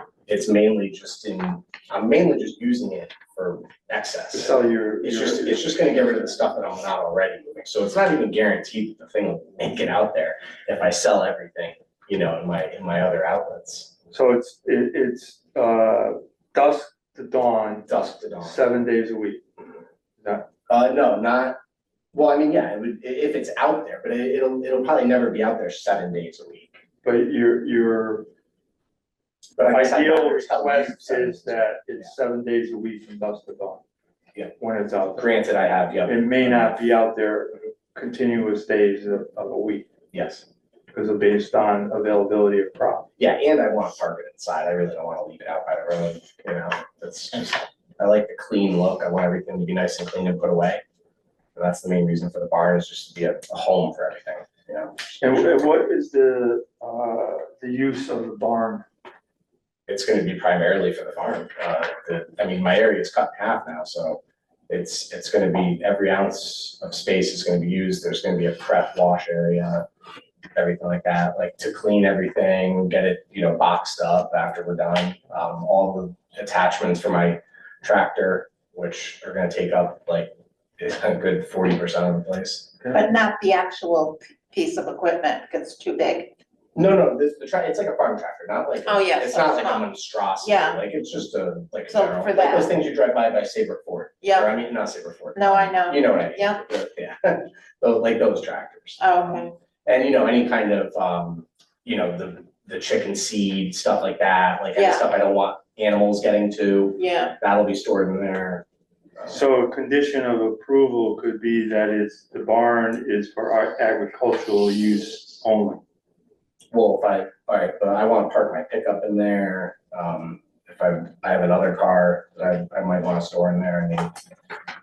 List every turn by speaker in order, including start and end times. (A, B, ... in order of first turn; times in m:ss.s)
0:00.3-0:13.9 A
0:04.3-0:06.2 B
0:14.1-0:17.9 B
0:17.9-0:18.6 A
0:18.4-0:19.4 B
0:20.2-0:20.5 B
0:20.7-0:21.6 A
0:22.1-0:26.8 A
0:27.0-0:28.3 B
0:29.6-0:32.1 A
0:29.6-0:33.8 B
0:34.6-0:35.3 B
0:35.2-0:36.8 A
0:36.1-0:39.9 B
0:40.1-0:40.4 A
0:40.9-0:43.1 B
0:43.2-0:50.8 A
0:51.6-0:55.2 A
0:55.2-0:58.8 B
0:59.9-1:09.9 A
1:10.5-1:22.9 A
1:22.9-1:26.4 C
1:26.8-1:39.0 A
1:28.8-1:29.9 C
1:30.4-1:30.8 C
1:31.9-1:32.7 C
1:34.2-1:34.5 C
1:35.4-1:36.6 C
1:39.0-1:39.5 C
1:39.8-1:48.6 A
1:44.7-1:45.0 C
1:47.0-1:47.4 C
1:49.3-1:55.8 B
1:56.7-2:04.1 A